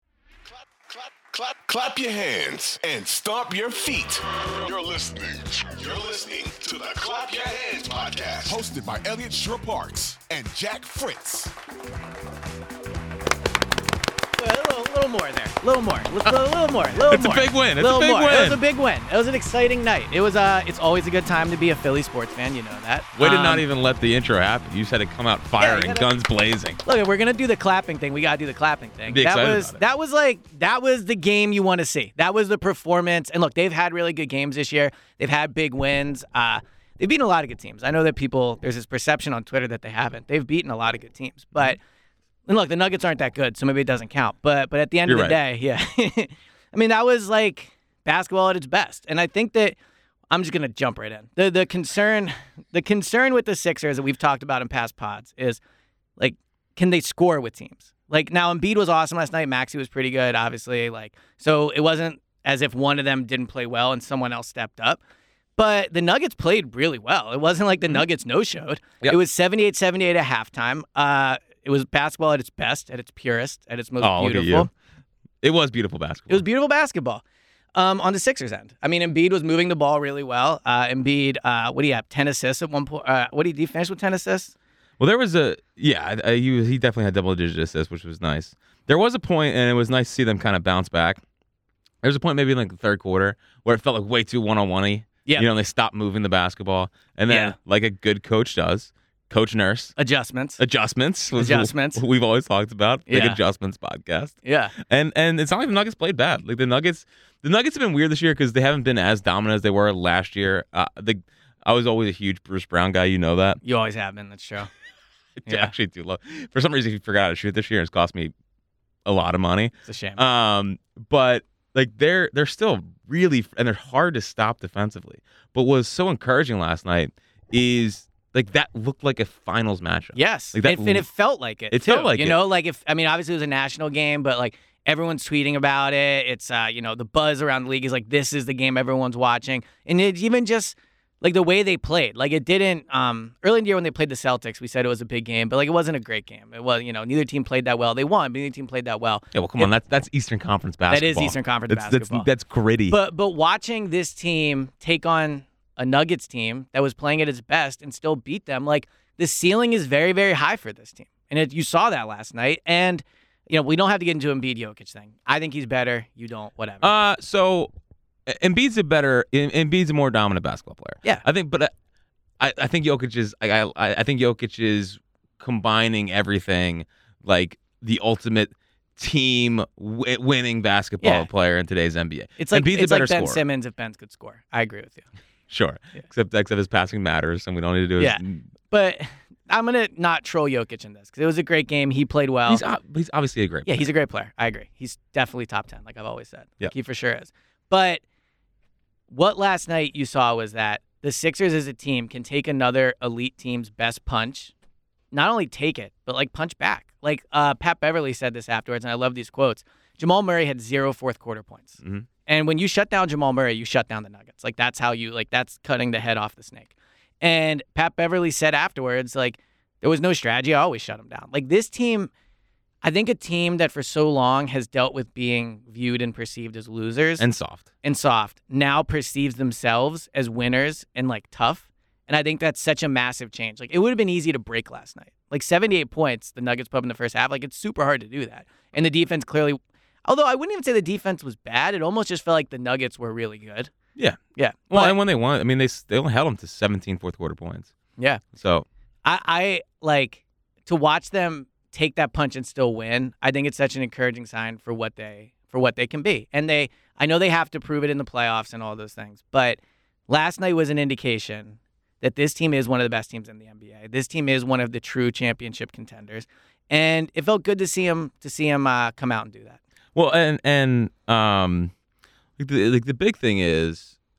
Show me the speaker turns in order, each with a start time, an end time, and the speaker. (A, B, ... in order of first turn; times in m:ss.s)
0:00.5-0:11.6 A
0:14.4-0:23.6 B
0:17.1-0:18.6 C
0:23.2-0:26.8 C
0:25.6-0:26.1 B
0:26.8-0:41.8 B
0:29.1-0:29.8 C
0:42.5-0:49.8 B
0:45.1-0:45.4 C
0:50.3-0:55.6 B
0:56.2-1:05.0 B
1:05.6-1:14.7 B
1:14.0-1:14.7 C
1:15.4-1:16.4 C
1:16.3-1:17.2 B
1:17.8-1:24.5 B
1:25.0-1:31.2 C
1:32.0-1:40.0 C
1:37.3-1:37.6 B
1:40.0-1:40.6 B
1:40.6-1:53.6 C
1:41.4-1:42.0 B
1:43.1-1:43.4 B
1:44.4-1:44.7 B
1:53.6-1:54.7 B
1:55.4-1:58.3 C
1:55.5-1:55.7 B
1:59.1-2:11.1 C
1:59.8-2:00.2 B
2:10.2-2:29.7 B
2:11.7-2:12.4 C
2:29.3-2:33.0 C
2:30.9-2:32.3 B
2:32.9-2:46.9 B
2:46.8-2:47.7 C
2:48.3-2:51.7 C
2:52.4-3:03.4 C
3:01.0-3:01.3 B
3:02.4-3:05.1 B
3:05.5-3:08.4 C
3:08.0-3:12.6 B
3:12.5-3:13.9 C
3:13.7-3:18.0 B
3:19.1-3:24.5 B
3:25.1-3:42.1 B
3:31.8-3:32.1 C
3:42.8-3:47.2 B
3:47.2-3:47.7 C
3:47.8-4:03.7 B
4:04.0-4:07.7 C
4:04.4-4:05.0 B
4:08.0-4:08.2 B
4:08.3-4:08.7 C
4:09.0-4:29.6 B
4:30.0-4:31.7 C
4:32.4-4:33.9 C